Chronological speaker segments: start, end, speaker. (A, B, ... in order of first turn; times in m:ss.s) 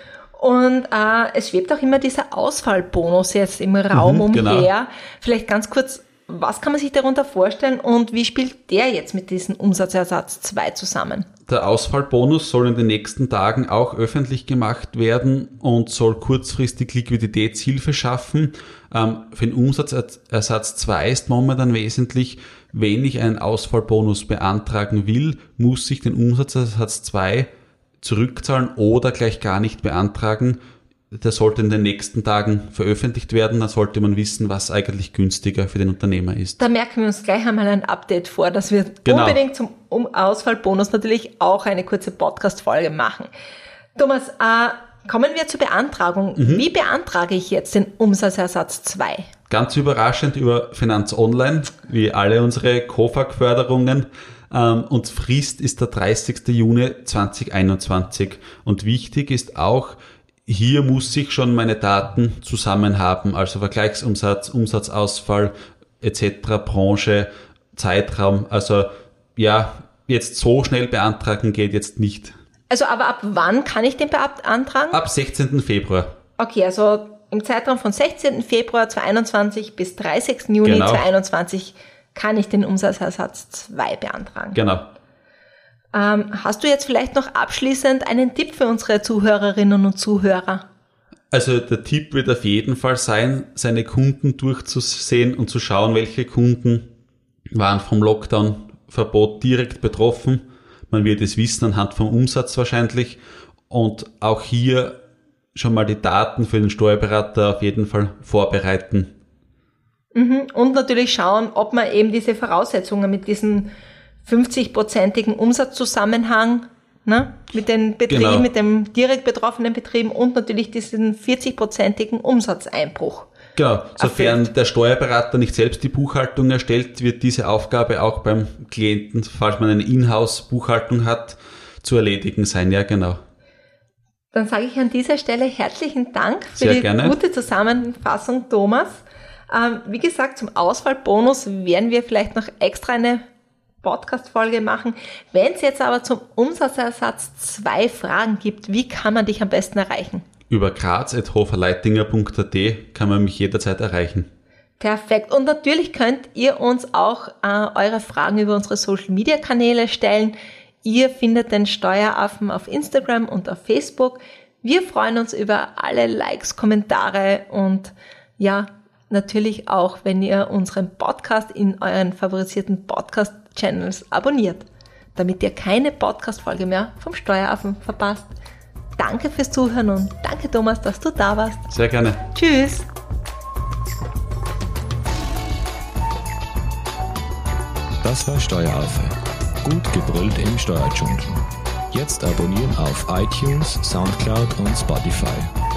0:00.3-0:11.3 A
0:03.9-0:04.7 B
0:11.5-0:27.5 B
0:28.0-0:30.6 B
0:31.1-0:36.6 B
0:36.6-0:43.3 A
0:39.0-0:39.4 B
0:43.9-0:49.3 A
0:46.4-0:46.6 B
0:49.5-1:12.3 B
1:12.7-1:15.0 A
1:14.9-1:16.1 B
1:16.4-1:24.6 A
1:20.6-1:21.0 B
1:24.5-1:24.8 B
1:25.9-1:30.6 A
1:31.3-1:36.9 B
1:37.5-1:43.2 B
1:43.7-1:45.0 B
1:45.5-1:49.1 B
1:50.1-1:53.7 A
1:54.2-2:03.3 A
1:58.1-1:58.5 B
2:03.6-2:13.2 B
2:04.0-2:04.5 A
2:14.3-2:23.2 A
2:16.6-2:17.2 B
2:23.8-2:30.2 A
2:30.5-2:34.3 B
2:34.8-2:58.3 A
2:59.0-3:01.7 A
3:01.7-3:02.2 B
3:02.3-3:02.9 A
3:08.0-3:15.5 C